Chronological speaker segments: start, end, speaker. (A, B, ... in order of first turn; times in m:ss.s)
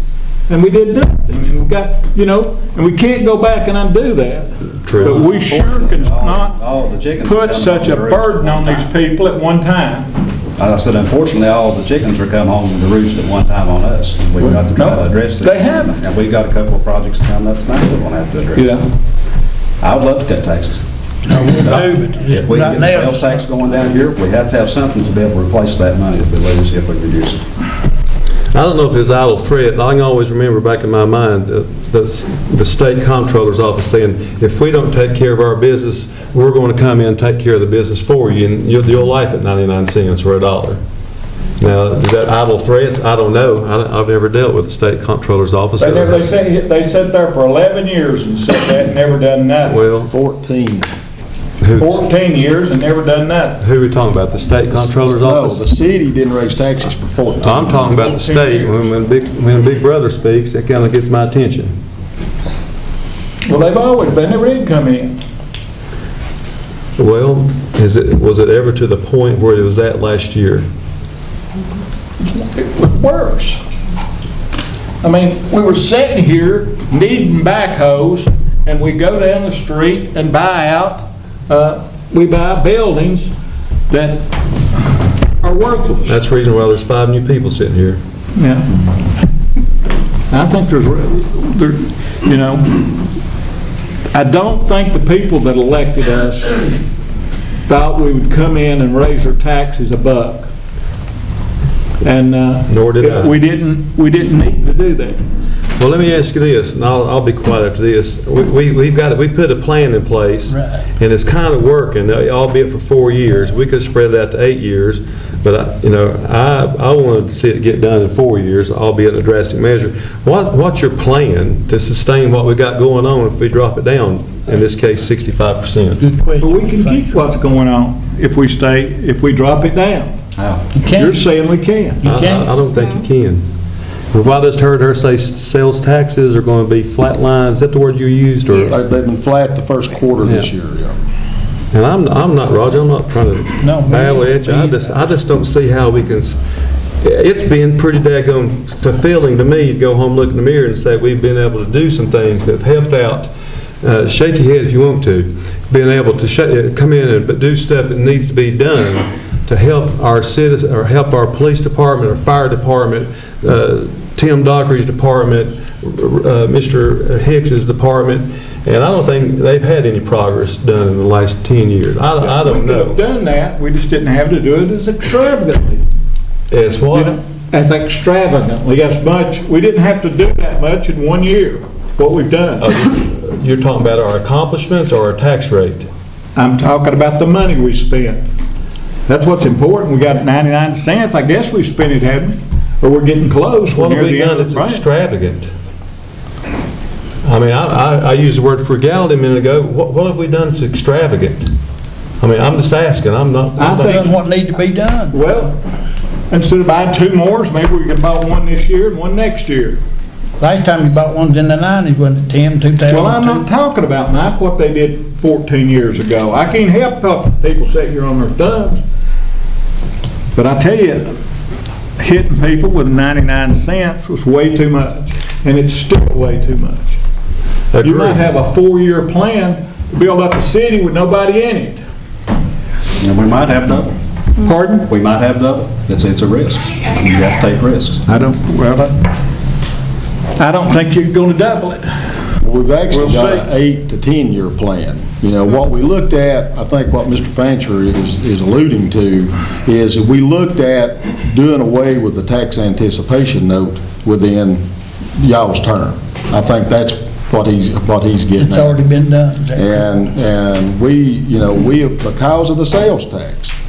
0:00.5-0:10.1 A
0:04.8-0:05.3 B
0:05.0-0:08.9 C
0:10.6-0:18.7 C
0:14.5-0:16.0 A
0:18.5-0:18.9 A
0:19.8-0:20.8 C
0:21.3-0:23.5 D
0:21.6-0:27.4 C
0:28.5-0:40.8 B
0:41.6-0:46.3 B
0:45.8-0:49.8 A
0:49.6-0:50.1 B
0:50.1-0:50.9 E
0:51.6-0:52.0 B
0:51.8-0:53.6 A
0:53.6-0:55.6 B
0:54.7-0:58.0 E
0:57.4-1:01.7 B
0:58.0-0:58.8 A
1:03.4-1:05.1 A
1:07.0-1:10.6 B
1:12.2-1:13.6 A
1:15.0-1:23.3 A
1:23.9-1:24.3 A
1:25.4-1:26.1 A
1:26.0-1:28.0 B
1:28.4-1:28.7 A
1:30.3-1:33.0 A
1:34.1-1:36.8 A
1:37.7-1:40.5 A
1:42.0-1:45.2 A
1:42.7-1:43.3 B
1:45.8-2:06.0 B
2:06.0-2:07.3 D
2:06.4-2:10.1 A
2:10.4-2:10.7 C
2:10.7-2:11.3 D
2:10.9-2:12.0 A
2:12.0-2:12.7 D
2:12.0-2:13.4 B
2:14.1-2:18.9 B
2:18.6-2:21.0 E
2:20.2-2:20.5 B
2:21.7-2:26.4 B
2:23.6-2:25.1 D
2:27.0-2:33.3 B
2:33.8-2:53.0 B
2:52.2-2:55.8 A
2:56.5-2:57.2 B
2:56.9-3:02.7 A
3:02.6-3:05.9 B
3:06.4-3:08.2 A
3:09.1-3:14.8 A
3:13.7-3:15.5 B
3:17.2-3:21.5 B
3:22.2-3:24.1 B
3:23.6-3:24.2 A
3:23.7-3:25.5 D
3:25.1-3:25.6 A
3:26.3-3:29.8 A
3:30.4-3:33.5 D
3:32.8-3:38.8 A
3:40.3-3:41.1 A
3:42.0-3:46.9 A
3:47.7-3:48.2 B
3:47.8-3:51.8 A
3:53.0-3:53.9 C
3:54.4-3:54.9 A
3:54.8-3:58.0 C
3:58.0-3:59.0 A
4:00.4-4:01.9 A
4:02.4-4:14.6 E
4:02.9-4:03.4 A
4:15.2-4:18.8 E
4:18.4-4:19.8 D
4:19.5-4:23.5 E